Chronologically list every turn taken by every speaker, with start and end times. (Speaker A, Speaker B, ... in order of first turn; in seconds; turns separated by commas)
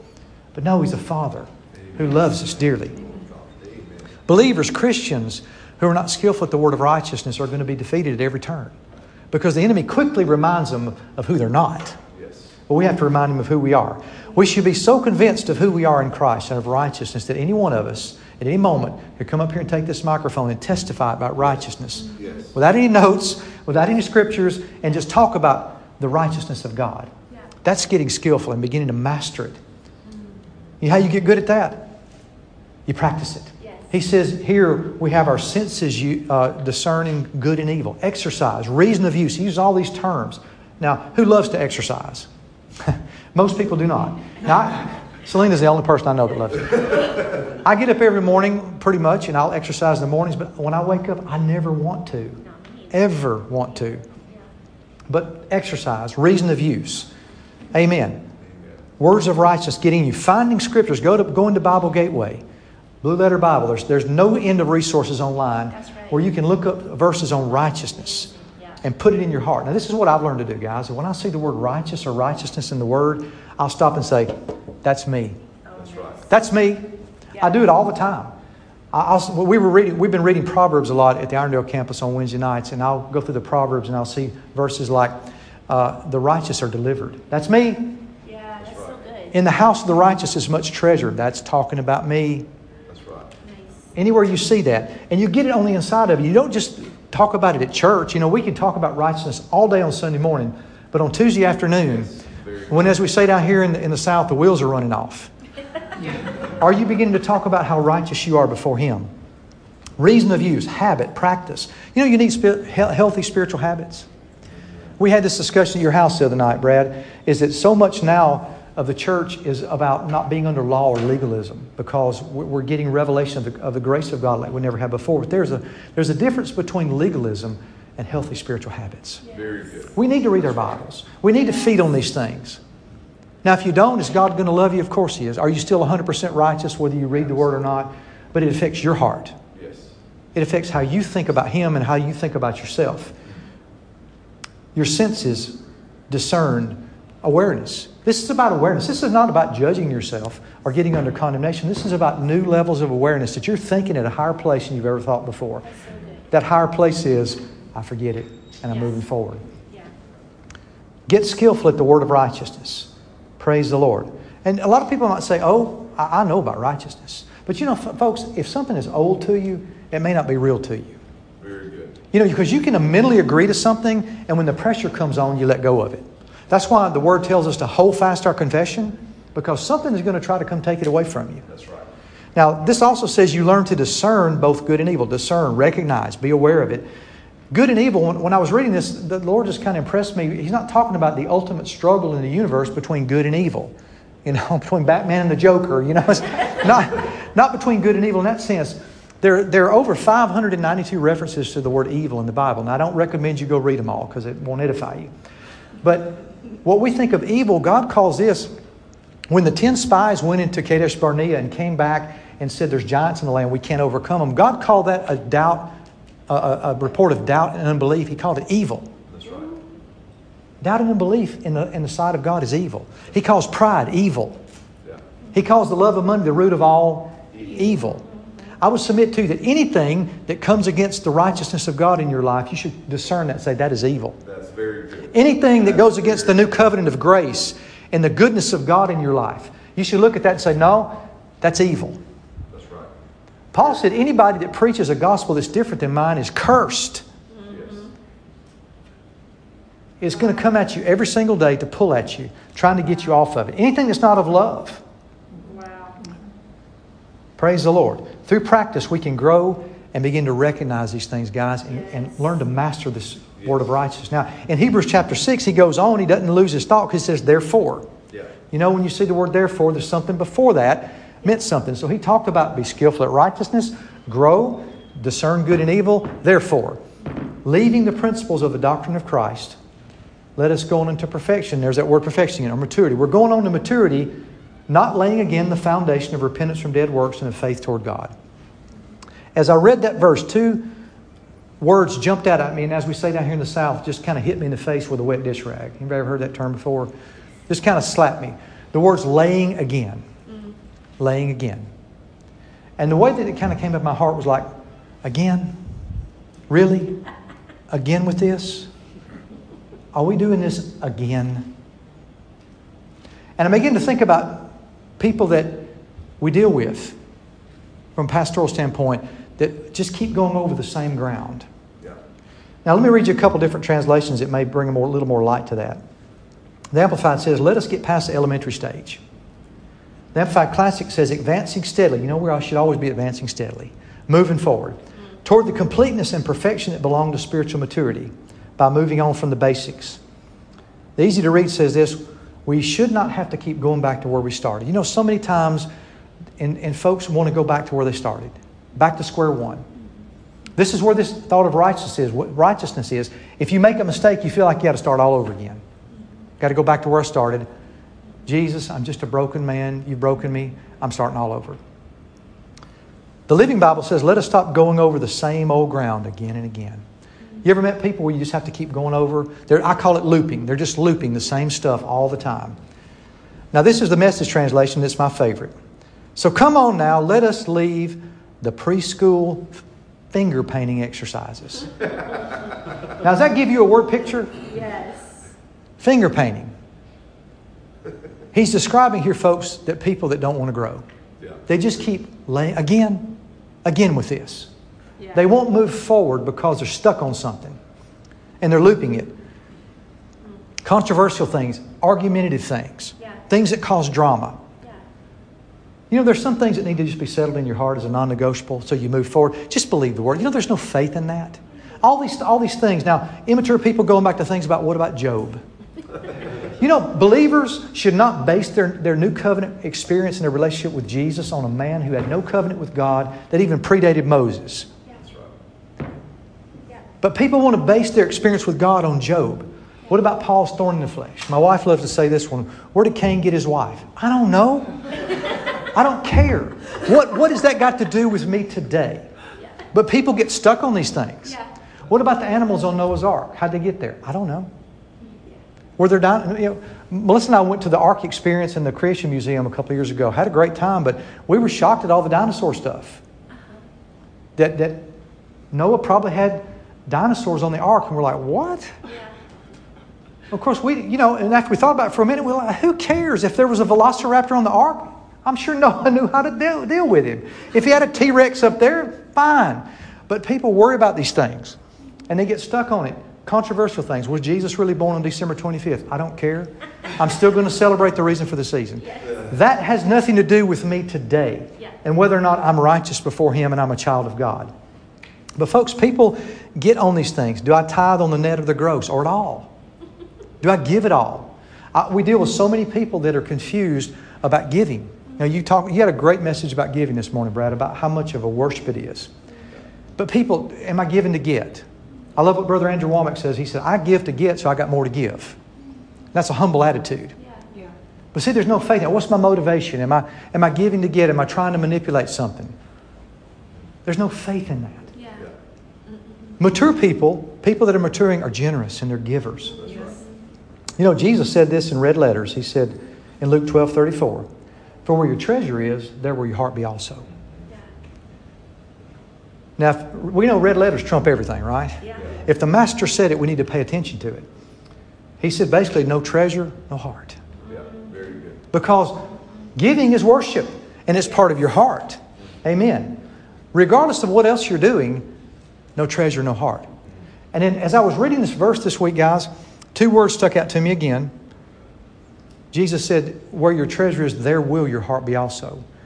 Speaker A: 0.5-3.0, Speaker B: 1.8-4.2, Speaker A: 4.3-8.7, Speaker A: 9.3-12.0, Speaker B: 12.1-12.5, Speaker A: 12.7-27.1, Speaker B: 22.1-22.5, Speaker A: 27.6-29.6, Speaker A: 30.8-31.9, Speaker A: 32.9-42.3, Speaker C: 33.6-33.9, Speaker A: 42.8-54.0, Speaker C: 52.4-52.9, Speaker A: 55.1-57.1, Speaker A: 57.7-58.2, Speaker B: 58.4-58.8, Speaker A: 59.0-62.4, Speaker A: 63.0-75.4, Speaker C: 65.7-66.2, Speaker C: 68.3-68.7, Speaker C: 75.7-76.3, Speaker B: 75.7-76.2, Speaker A: 76.3-78.3, Speaker A: 78.9-88.0, Speaker C: 88.2-89.4, Speaker B: 88.6-89.0, Speaker A: 89.3-92.5, Speaker B: 92.9-93.3, Speaker C: 93.4-93.9, Speaker A: 93.9-102.2, Speaker B: 101.8-103.0, Speaker A: 102.7-105.3, Speaker A: 106.6-109.1, Speaker A: 110.0-114.1, Speaker A: 115.0-129.2, Speaker B: 129.2-130.0, Speaker A: 129.9-132.6, Speaker A: 133.4-139.4, Speaker B: 139.5-139.9, Speaker A: 140.3-143.1, Speaker A: 144.7-155.7, Speaker C: 155.7-156.2, Speaker A: 156.3-159.4, Speaker C: 158.7-159.0, Speaker A: 161.1-171.0, Speaker B: 171.4-172.0, Speaker A: 172.1-181.4, Speaker B: 181.5-181.9, Speaker A: 182.3-186.9, Speaker A: 187.5-193.7, Speaker A: 194.2-205.1, Speaker A: 205.8-208.5, Speaker A: 209.3-215.8, Speaker A: 216.3-218.9, Speaker B: 219.1-219.5, Speaker A: 220.6-224.4, Speaker A: 225.3-228.0, Speaker A: 228.6-234.2, Speaker B: 234.2-236.7, Speaker A: 235.1-242.0, Speaker B: 242.5-242.9, Speaker A: 243.5-247.0, Speaker C: 247.3-247.9, Speaker B: 247.4-247.9, Speaker A: 250.0-254.8, Speaker C: 255.4-256.0, Speaker A: 257.4-267.9, Speaker A: 268.5-276.8, Speaker A: 277.4-279.6, Speaker A: 280.4-284.1, Speaker A: 284.7-288.1, Speaker A: 289.3-290.7, Speaker A: 291.6-296.9, Speaker A: 297.5-300.0, Speaker A: 301.0-301.7, Speaker A: 302.8-304.5, Speaker A: 305.0-305.6, Speaker A: 306.5-307.0, Speaker A: 307.7-308.7, Speaker A: 309.9-311.5, Speaker A: 313.4-316.9, Speaker A: 317.9-321.4, Speaker A: 322.6-325.8, Speaker A: 326.7-329.0, Speaker A: 330.1-340.0, Speaker A: 341.0-345.7, Speaker A: 346.4-349.6, Speaker A: 350.6-355.6, Speaker A: 356.4-357.5, Speaker A: 358.2-361.6, Speaker A: 363.3-366.8, Speaker A: 367.4-372.6, Speaker A: 373.5-375.5, Speaker A: 376.1-379.6, Speaker A: 380.1-381.7, Speaker A: 383.0-384.4, Speaker C: 384.4-385.3, Speaker A: 385.8-386.5, Speaker A: 388.3-390.8, Speaker A: 391.5-394.5, Speaker A: 395.1-397.6, Speaker A: 398.4-399.1, Speaker A: 400.6-404.4, Speaker A: 405.9-415.4, Speaker A: 416.6-424.7, Speaker B: 425.0-425.3, Speaker A: 427.0-434.8, Speaker A: 435.4-439.1, Speaker A: 439.7-441.4, Speaker A: 441.9-444.5, Speaker C: 445.0-445.4, Speaker A: 445.8-453.0, Speaker C: 453.3-453.6, Speaker A: 454.4-454.9, Speaker A: 455.5-458.8, Speaker A: 460.3-471.6, Speaker A: 472.1-484.5, Speaker A: 485.4-489.5, Speaker A: 490.4-499.1, Speaker A: 500.0-505.4, Speaker A: 506.1-507.1, Speaker C: 507.2-507.5, Speaker A: 508.1-512.5, Speaker A: 513.9-514.9, Speaker C: 514.9-515.2, Speaker A: 516.4-519.6, Speaker B: 519.6-520.0, Speaker A: 520.8-524.3, Speaker A: 524.9-527.0, Speaker A: 529.6-534.3, Speaker A: 535.2-537.2, Speaker B: 537.5-538.5, Speaker A: 538.5-543.0, Speaker A: 543.5-545.0, Speaker A: 545.8-546.7, Speaker A: 547.3-551.1, Speaker A: 552.5-555.6